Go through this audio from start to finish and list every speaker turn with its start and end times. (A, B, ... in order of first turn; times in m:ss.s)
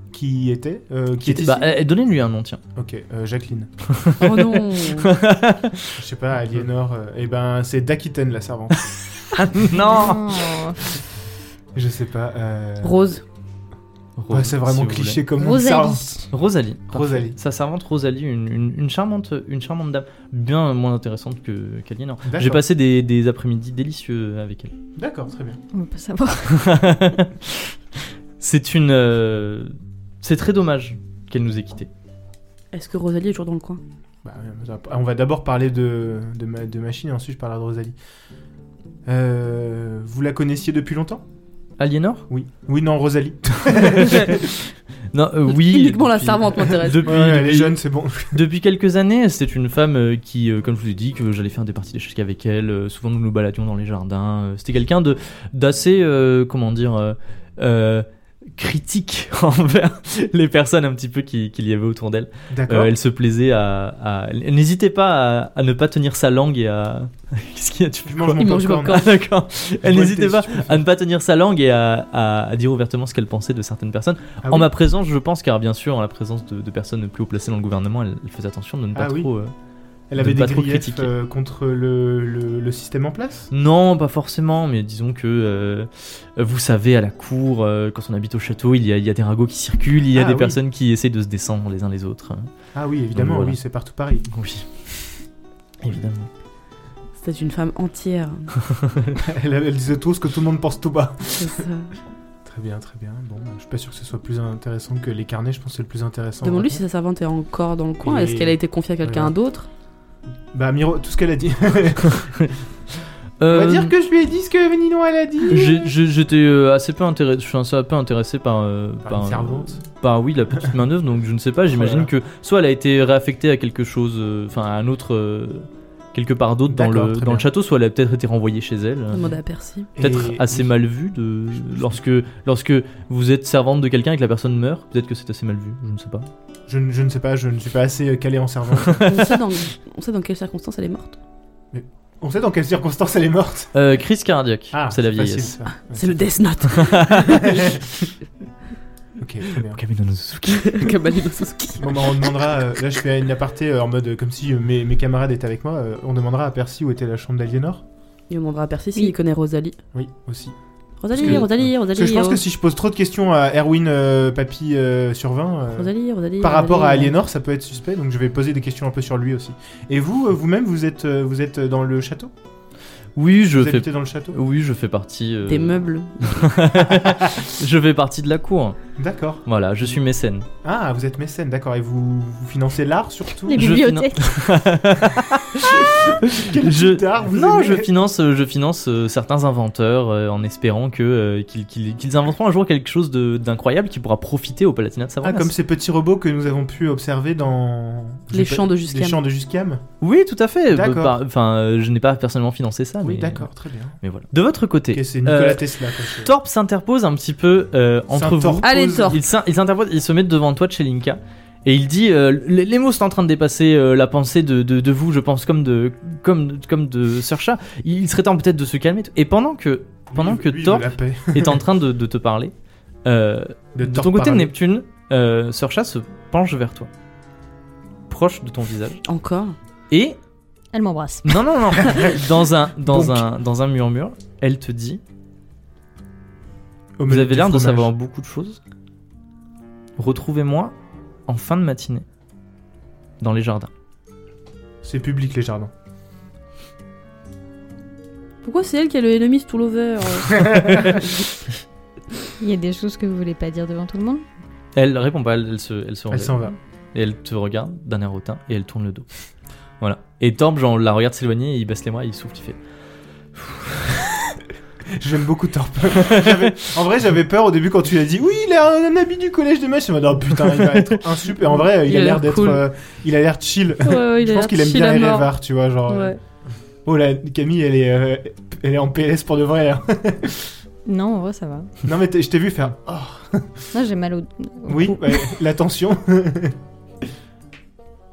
0:00.1-0:01.7 A
0:01.2-0:02.6 B
0:02.7-0:03.7 A
0:03.9-0:06.0 B
0:04.2-0:05.1 C
0:06.0-0:08.9 A
0:09.3-0:10.5 B
0:09.6-0:10.8 D
0:11.7-0:13.0 A
0:12.8-0:13.2 C
0:14.2-0:15.2 B
0:14.3-0:16.1 A
0:15.4-0:16.2 D
0:16.3-0:24.7 B
0:16.9-0:17.4 A
0:22.2-0:22.6 A
0:25.0-0:25.6 A
0:25.7-0:26.8 D
0:26.5-0:27.7 B
0:28.4-0:31.9 B
0:32.7-0:33.8 C
0:34.2-0:37.9 A
0:39.0-0:41.2 A
0:41.8-0:42.3 B
0:42.3-0:44.5 A
0:43.7-0:44.6 B
0:45.1-0:47.8 B
0:45.5-0:47.1 C
0:47.0-0:48.4 A
0:48.3-0:58.0 B
0:58.6-1:19.5 B
1:02.5-1:02.9 A
1:08.1-1:09.0 A
1:08.4-1:09.1 C
1:09.8-1:10.8 A
1:14.4-1:14.7 A
1:18.9-1:19.3 A
1:20.1-1:23.5 A
1:20.2-1:21.1 B
1:23.5-1:32.5 B
1:30.1-1:30.6 A
1:32.7-1:34.3 A
1:33.1-1:33.6 B
1:34.3-1:34.6 B
1:35.8-1:36.3 B
1:37.2-1:38.5 C
1:38.7-1:39.1 B
1:39.2-1:41.6 A
1:41.4-1:41.9 C
1:42.4-1:46.8 A
1:46.4-1:49.7 C
1:48.0-1:49.3 A
1:50.5-1:52.3 A
1:53.4-1:53.9 B
1:53.5-1:55.8 A
1:55.5-2:09.4 B
1:59.0-1:59.8 A
2:01.7-2:02.1 A
2:06.7-2:07.5 A
2:09.1-2:09.9 C
2:10.0-2:10.7 A
2:10.0-2:16.3 B
2:16.7-2:19.2 A
2:18.8-2:19.3 B
2:19.0-2:21.2 C
2:21.7-2:23.7 A
2:23.7-2:25.6 B
2:24.7-2:26.2 A
2:25.9-2:27.5 C
2:26.7-2:27.4 B
2:27.2-2:28.1 A
2:29.2-2:29.8 A
2:29.7-2:30.9 B
2:30.5-2:32.1 C
2:31.8-2:37.8 A
2:38.3-2:39.8 C
2:39.9-2:40.6 A
2:41.0-2:42.4 C
2:41.1-2:52.3 A
2:45.8-2:47.1 C
2:53.2-2:58.8 B
2:53.5-2:54.4 A
2:55.5-2:56.5 C
2:56.8-2:57.4 A
2:59.0-2:59.4 A
2:59.4-3:00.5 B
3:00.6-3:03.8 A
3:03.4-3:04.4 D
3:03.5-3:15.5 B
3:05.6-3:07.9 A
3:15.2-3:19.8 A
3:18.3-3:19.2 C
3:20.0-3:23.5 B
3:20.7-3:21.2 A
3:23.0-3:24.0 A
3:24.0-3:42.5 B
3:24.9-3:26.3 A
3:28.1-3:29.2 A
3:28.6-3:29.2 C
3:40.1-3:41.6 A
3:43.0-3:46.9 B
3:43.7-3:44.5 A
3:48.1-3:49.0 B
3:49.0-3:49.5 C
3:49.9-3:50.2 B
3:50.7-3:51.4 D
3:51.2-3:55.0 B
3:52.8-3:53.2 A
3:57.0-3:57.9 A
3:57.1-3:58.6 B
4:00.0-4:00.7 B
4:01.3-4:02.0 B
4:03.2-4:03.7 B
4:04.8-4:05.7 A
4:08.4-4:11.1 C
4:10.5-4:10.8 A
4:10.7-4:11.0 B
4:12.4-4:14.2 D
4:14.7-4:16.4 B
4:16.1-4:16.6 A
4:16.9-4:19.0 B
4:19.8-4:22.6 B
4:23.4-4:24.0 B
4:24.9-4:36.1 A
4:26.0-4:26.5 B
4:30.5-4:30.9 B
4:31.8-4:32.6 C
4:33.8-4:35.3 C
4:35.9-4:36.2 C
4:36.8-4:40.5 A
4:40.8-4:41.7 D
4:41.8-4:43.6 A
4:43.7-4:45.3 D
4:44.7-4:46.6 A